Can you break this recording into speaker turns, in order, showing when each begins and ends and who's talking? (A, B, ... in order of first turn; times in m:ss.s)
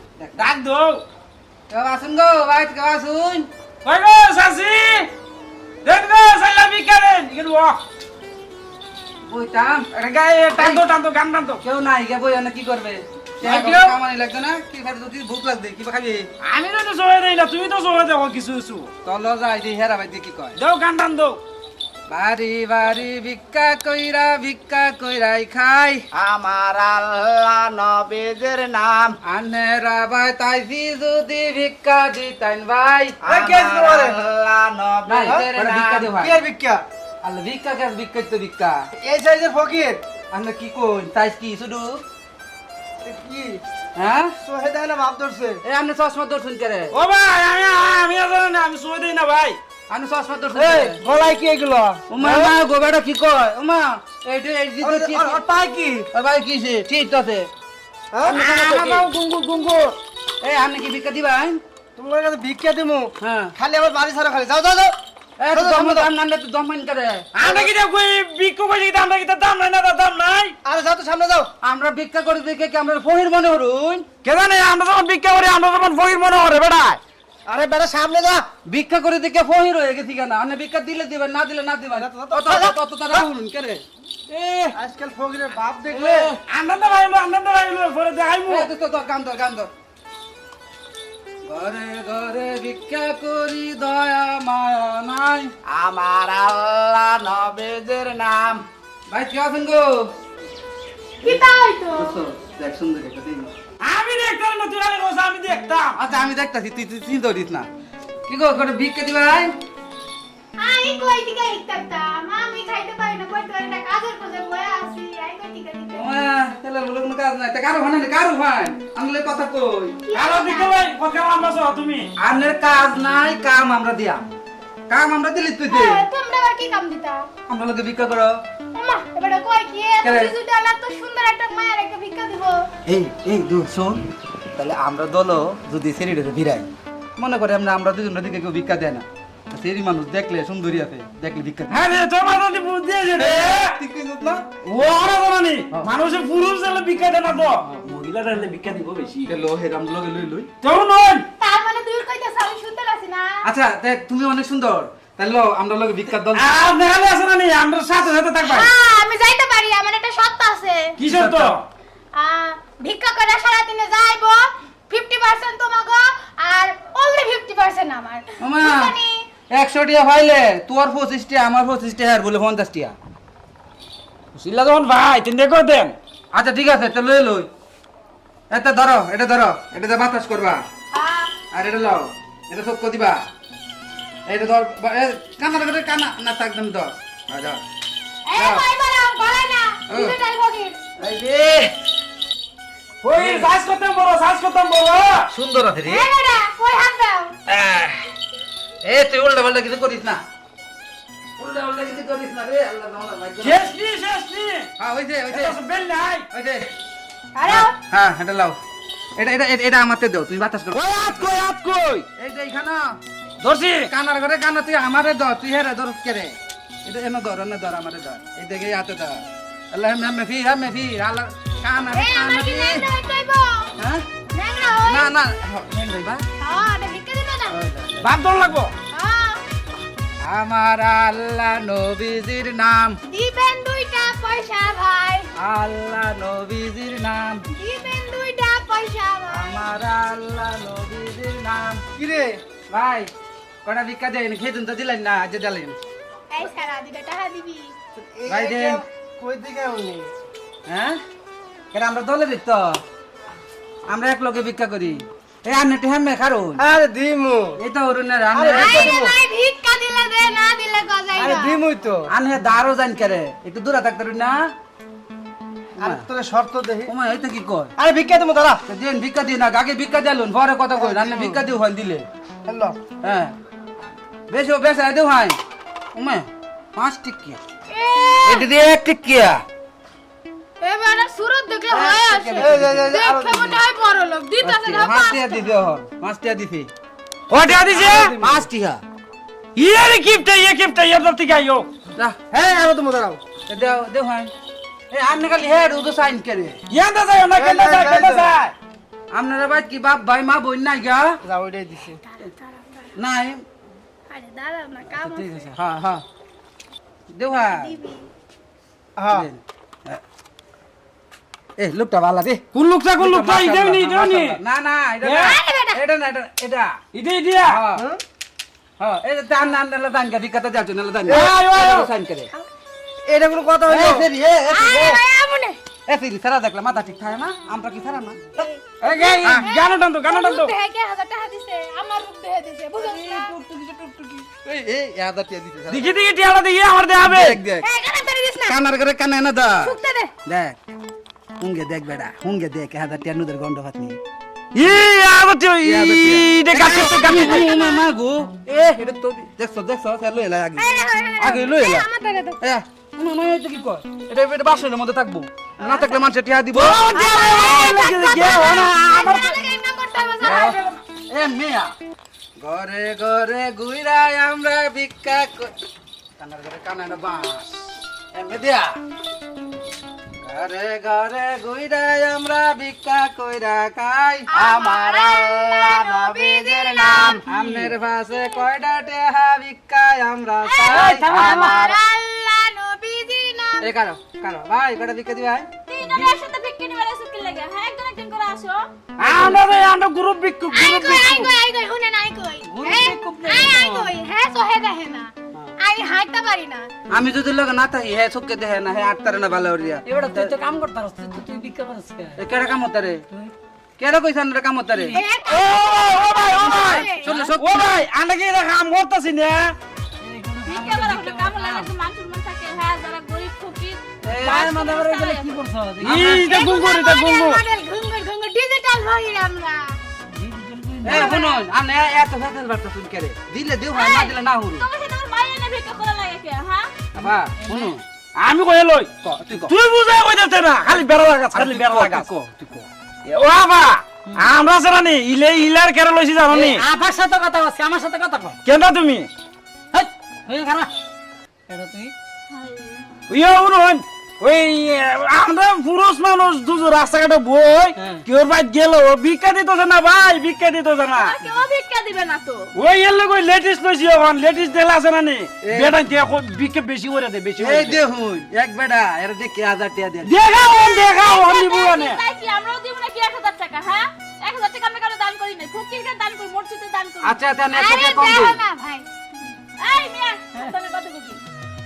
0:00.4-0:01.0 A
0:01.7-0:03.5 B
0:03.8-0:05.1 A
0:05.8-0:07.8 A
0:09.3-0:10.0 B
0:10.0-0:11.6 A
0:10.6-0:10.8 B
0:11.6-0:16.3 B
0:13.4-0:14.0 A
0:16.4-0:18.9 A
0:19.0-0:20.6 B
0:20.6-0:21.4 A
0:22.1-0:26.0 B
0:26.1-0:29.2 C
0:29.2-0:33.2 B
0:33.2-0:36.1 C
0:33.3-0:34.2 D
0:35.0-0:36.4 B
0:35.2-0:35.5 D
0:36.0-0:36.8 D
0:37.2-0:38.8 B
0:39.0-0:40.0 D
0:40.3-0:42.0 B
0:43.0-0:43.6 D
0:44.0-0:44.3 B
0:44.4-0:45.6 D
0:45.6-0:47.0 B
0:46.9-0:49.6 A
0:49.9-0:51.0 B
0:50.6-0:52.5 D
0:52.1-0:55.4 B
0:54.8-0:56.1 D
0:56.1-0:57.5 B
0:58.1-0:58.9 D
0:58.2-0:59.1 B
0:58.4-0:59.9 A
1:00.4-1:01.6 B
1:02.0-1:05.0 D
1:03.2-1:03.6 B
1:05.4-1:07.5 B
1:05.5-1:06.1 D
1:07.4-1:10.6 A
1:10.6-1:11.5 D
1:11.6-1:14.0 B
1:14.2-1:17.0 A
1:17.5-1:18.5 D
1:18.7-1:23.8 B
1:22.0-1:23.6 D
1:24.3-1:24.8 A
1:24.7-1:26.4 D
1:25.9-1:28.7 A
1:28.5-1:29.7 B
1:31.4-1:35.5 B
1:35.7-1:38.6 C
1:39.1-1:40.1 B
1:41.2-1:42.2 E
1:41.9-1:43.5 B
1:43.8-1:46.0 A
1:46.0-1:47.7 B
1:48.3-1:49.5 B
1:50.6-1:56.1 E
1:55.9-2:00.0 B
2:00.0-2:00.8 E
2:00.1-2:02.1 A
2:02.2-2:04.3 B
2:04.9-2:06.0 B
2:05.7-2:07.3 E
2:07.5-2:08.4 B
2:08.7-2:12.7 E
2:10.0-2:10.3 B
2:12.9-2:14.0 B
2:14.6-2:21.9 B
2:21.7-2:23.8 A
2:23.2-2:24.4 B
2:24.6-2:29.3 A
2:29.2-2:30.5 B
2:30.6-2:31.2 A
2:31.4-2:33.4 E
2:33.4-2:36.6 B
2:36.3-2:38.7 A
2:38.4-2:41.0 E
2:41.0-2:41.6 A
2:41.0-2:41.6 B
2:42.1-2:49.3 E
2:48.4-2:48.9 B
2:49.5-2:53.0 B
2:54.3-2:56.0 A
2:56.3-2:57.5 B
2:58.5-3:00.6 B
3:00.9-3:01.3 E
3:01.5-3:03.2 B
3:04.3-3:07.6 B
3:08.2-3:10.8 E
3:08.3-3:08.7 B
3:09.9-3:10.2 B
3:11.0-3:11.7 B
3:13.0-3:15.3 A
3:13.1-3:13.5 B
3:15.3-3:16.1 B
3:15.8-3:17.3 E
3:17.5-3:18.0 B
3:18.8-3:20.2 B
3:21.4-3:23.7 B
3:23.4-3:24.7 A
3:24.8-3:25.6 B
3:25.3-3:26.2 A
3:26.3-3:26.7 B
3:27.4-3:27.8 E
3:27.4-3:28.6 B
3:29.2-3:31.4 B
3:30.8-3:32.1 A
3:32.2-3:33.0 B
3:33.4-3:33.9 A
3:33.9-3:42.9 B
3:41.9-3:43.7 E
3:43.8-3:44.0 B
3:44.3-3:45.1 E
3:44.9-3:46.2 B
3:46.4-3:47.6 E
3:47.5-3:48.1 B
3:48.0-3:48.7 A
3:48.9-3:49.4 E
3:50.2-3:53.0 B
3:53.1-3:55.3 E
3:55.4-3:57.4 B
3:57.6-3:59.6 E
3:59.3-4:01.8 B
4:02.0-4:02.4 D
4:02.7-4:03.1 B
4:03.6-4:05.8 B
4:06.3-4:07.7 E
4:08.0-4:10.1 D
4:08.3-4:08.8 B
4:10.7-4:11.0 B
4:11.7-4:12.8 B
4:13.9-4:16.6 B
4:16.6-4:17.6 D
4:17.6-4:19.0 B
4:18.3-4:19.2 D
4:18.5-4:21.6 E
4:21.2-4:22.1 D
4:22.1-4:24.5 B
4:25.8-4:26.1 B
4:25.8-4:26.9 D
4:26.9-4:27.7 B
4:27.8-4:28.6 D
4:28.7-4:32.1 B
4:30.8-4:31.4 D
4:32.4-4:32.8 D
4:33.0-4:33.3 B
4:34.3-4:35.4 B
4:35.9-4:37.4 B
4:37.7-4:38.5 E
4:38.2-4:39.4 B
4:40.6-4:45.5 E
4:41.7-4:43.0 B
4:42.3-4:43.6 D
4:44.4-4:46.7 B
4:47.3-4:48.2 A
4:47.7-4:48.8 B
4:49.6-4:51.7 A
4:52.3-4:53.2 D
4:53.5-4:54.3 B
4:54.9-4:56.6 B
4:56.7-4:58.5 A
4:57.3-4:58.5 D
4:59.1-5:01.2 B
5:01.2-5:02.0 D
5:02.1-5:02.9 E
5:03.0-5:03.4 B
5:04.1-5:05.5 E
5:05.0-5:06.0 B
5:07.1-5:07.8 B
5:07.4-5:08.1 E
5:09.0-5:09.3 D
5:09.1-5:10.0 B
5:11.6-5:12.4 B
5:12.5-5:14.4 A
5:13.0-5:16.8 B
5:15.0-5:15.4 A
5:15.2-5:15.8 E
5:16.9-5:17.6 A
5:17.4-5:17.9 B
5:17.8-5:18.0 D
5:18.8-5:22.3 B
5:21.1-5:21.9 A
5:23.0-5:24.0 D
5:23.6-5:25.0 B
5:24.5-5:25.6 E
5:25.9-5:28.4 B
5:28.3-5:33.3 E
5:28.8-5:30.5 A
5:32.8-5:35.9 B
5:35.7-5:37.4 A
5:37.0-5:37.6 B
5:37.6-5:38.6 E
5:38.5-5:39.8 B
5:39.6-5:40.1 E
5:40.2-5:40.6 B
5:41.4-5:44.0 B
5:44.5-5:47.4 A
5:45.6-5:51.9 B
5:47.1-5:47.8 E
5:50.6-5:52.4 E
5:52.4-5:56.9 B
5:55.6-5:56.0 E
5:56.5-5:59.3 A
5:56.9-6:00.8 E
6:00.2-6:01.7 B
6:02.4-6:05.5 B
6:06.2-6:08.8 B
6:10.2-6:14.3 B
6:14.3-6:17.2 E
6:14.4-6:17.2 C
6:17.1-6:21.5 B
6:17.3-6:17.7 F
6:20.4-6:23.7 E
6:21.0-6:21.6 F
6:21.0-6:21.7 A
6:21.1-6:21.8 C
6:23.6-6:25.5 B
6:25.7-6:28.6 G
6:29.0-6:29.4 B
6:29.0-6:31.3 A
6:30.5-6:36.7 E
6:32.6-6:33.9 F
6:36.9-6:40.3 B
6:39.8-6:42.2 F
6:42.2-6:43.0 B
6:43.8-6:45.0 B
6:44.7-6:45.1 F
6:44.9-6:47.1 E
6:45.2-6:49.6 A
6:46.4-6:47.8 B
6:47.0-6:47.3 G
6:50.0-6:51.7 F
6:50.4-6:55.4 G
6:54.0-6:54.7 B
6:54.1-6:56.4 F
6:55.8-6:56.2 B
6:55.8-6:57.4 A
6:56.2-6:59.8 E
7:00.1-7:01.0 F
7:00.8-7:04.6 B
7:00.8-7:01.4 G
7:03.7-7:06.7 G
7:06.9-7:07.8 B
7:07.0-7:07.8 F
7:08.2-7:08.9 A
7:09.0-7:09.5 B
7:09.4-7:12.1 A
7:11.3-7:12.7 B
7:13.1-7:16.6 A
7:16.3-7:18.4 F
7:18.4-7:19.1 A
7:19.7-7:20.7 F
7:21.5-7:21.9 F
7:22.3-7:23.0 G
7:23.1-7:31.2 A
7:27.8-7:28.0 F
7:30.9-7:32.5 G
7:32.5-7:37.8 A
7:35.4-7:35.8 B
7:37.4-7:40.1 B
7:40.1-7:42.0 A
7:40.3-7:47.2 G
7:47.0-7:48.4 B
7:47.5-7:48.8 E
7:49.6-7:51.2 G